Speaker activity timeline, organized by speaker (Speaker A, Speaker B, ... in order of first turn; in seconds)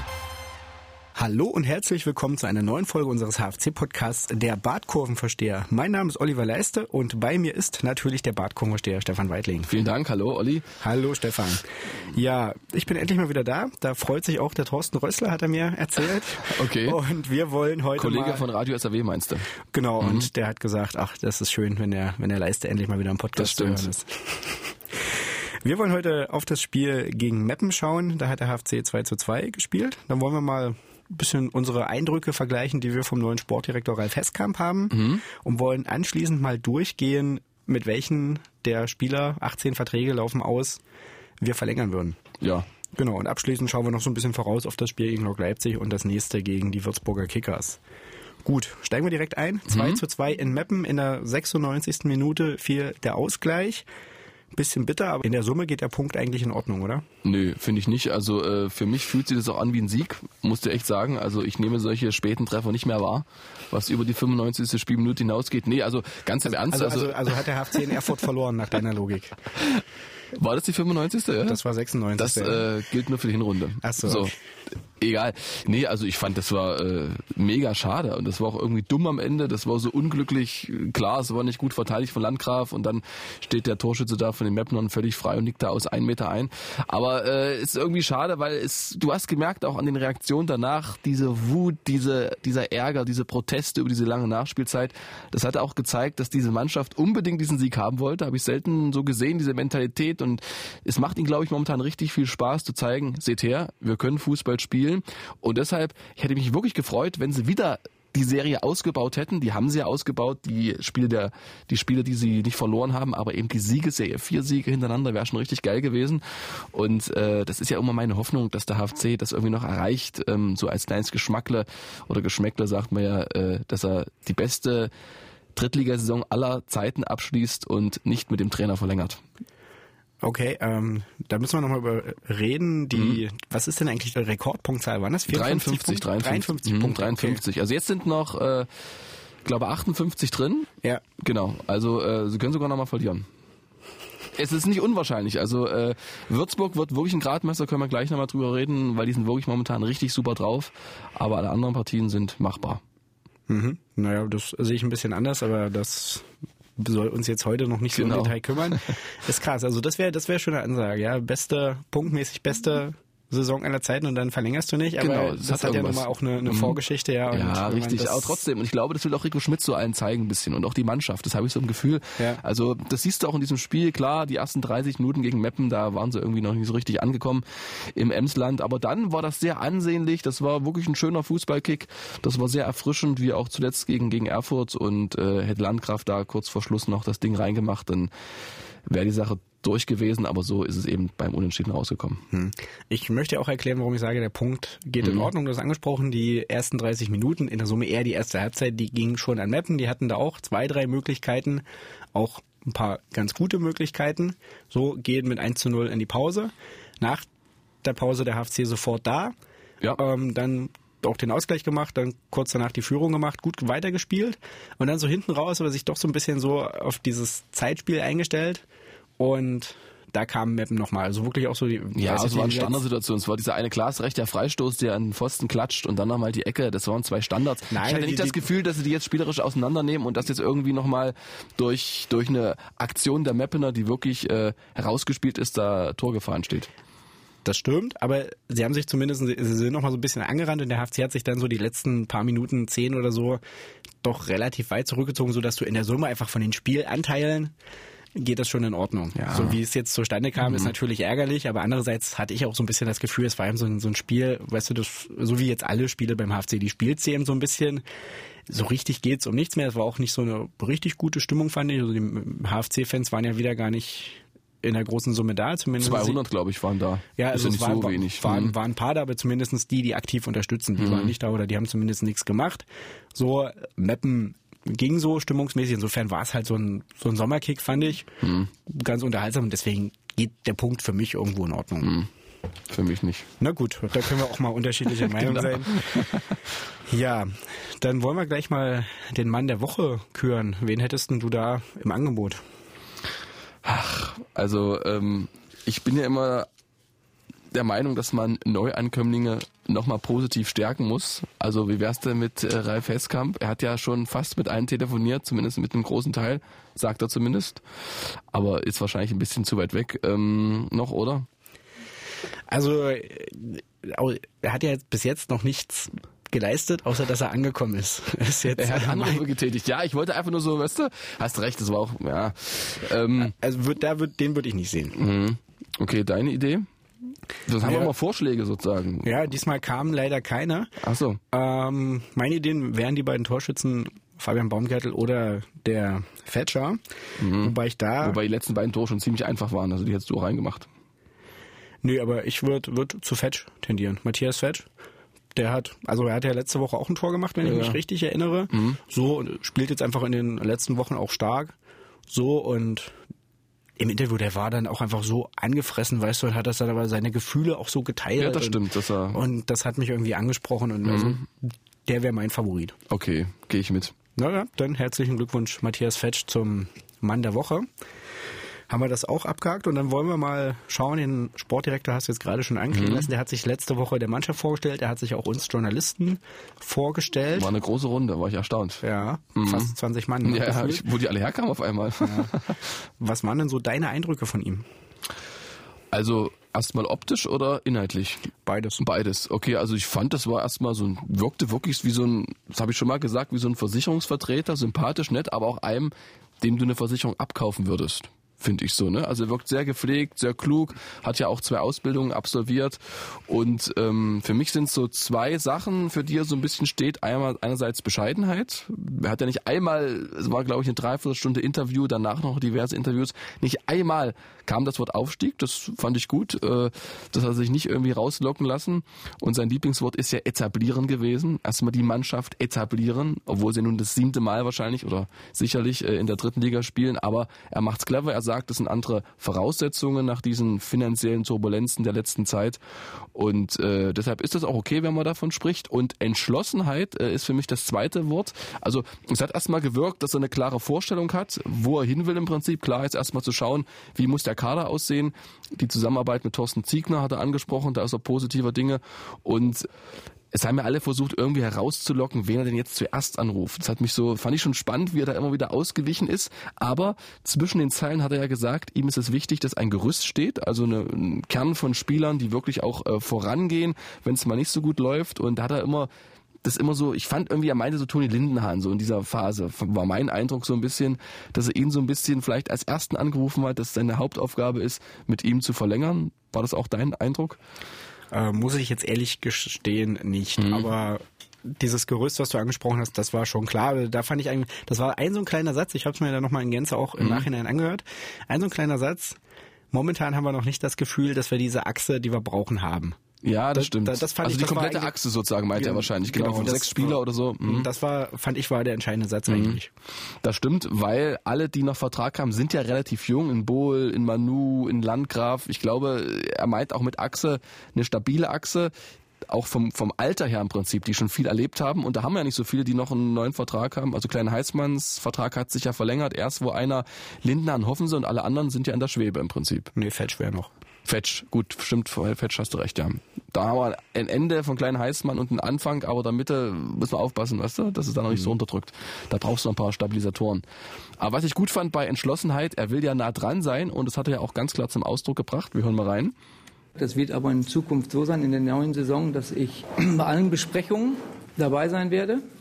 Speaker A: 1.1-9.7, 10.8-18.4, 19.7-40.8, 41.4-42.2, 43.0-47.8, 48.4-53.9, 54.5-57.0, 66.5-69.3, 71.4-72.7, 73.8-74.3, 130.2-137.4, 153.5-168.4, 192.3-207.3, 207.8-209.3, 209.9-218.6, 219.2-222.8, 227.7-228.4, 237.4-243.4, 244.0-247.5, 248.1-257.8, 258.5-266.2, 267.2-278.1, 278.6-281.9, 283.4-286.2, 286.9-292.4, 312.5-319.2, 323.2-325.0, 327.6-327.9, 329.0-330.7, 331.3-336.8, 337.3-338.2, 341.8-344.6, 345.3-351.5, 352.1-352.9, 353.8-362.8, 364.1-367.7, 368.7-377.5, 378.8-380.9, 382.0-382.4, 383.0-384.6, 388.4-388.8, 478.1-489.2, 489.7-493.0, 493.5-494.9, 495.5-499.7, 519.8-520.5
Speaker B: 9.7-10.7, 16.4-17.0, 17.9-19.5, 20.0-20.3, 23.4-23.9, 34.9-35.2, 42.4-42.7, 49.7-50.0, 57.2-67.3, 69.6-71.6, 72.2-74.3, 75.0-124.9, 125.5-129.2, 132.9-133.2, 135.3-138.7, 139.4-143.3, 144.3-152.8, 157.9-158.9, 165.0-166.8, 167.3-188.1, 188.8-192.2, 195.0-195.3, 221.9-236.7, 249.2-249.6, 250.4-250.7, 265.8-268.5, 270.8-271.1, 278.2-278.5, 281.8-282.1, 282.7-283.3, 285.2-286.2, 293.6-296.5, 297.5-311.3, 318.6-323.3, 324.9-326.7, 327.4-329.1, 330.8-331.2, 337.2-340.7, 347.4-347.8, 348.5-348.8, 358.2-359.2, 360.9-361.2, 362.9-363.9, 372.7-373.1, 377.3-378.8, 379.3-382.6, 385.9-388.3, 388.8-432.6, 433.1-449.7, 450.3-465.9, 466.4-477.4, 480.4-480.7, 487.0-487.2, 493.2-497.7, 499.3-499.6, 500.2-508.7, 509.3-519.7, 520.8-530.4, 531.0-536.1
Speaker C: 536.8-542.2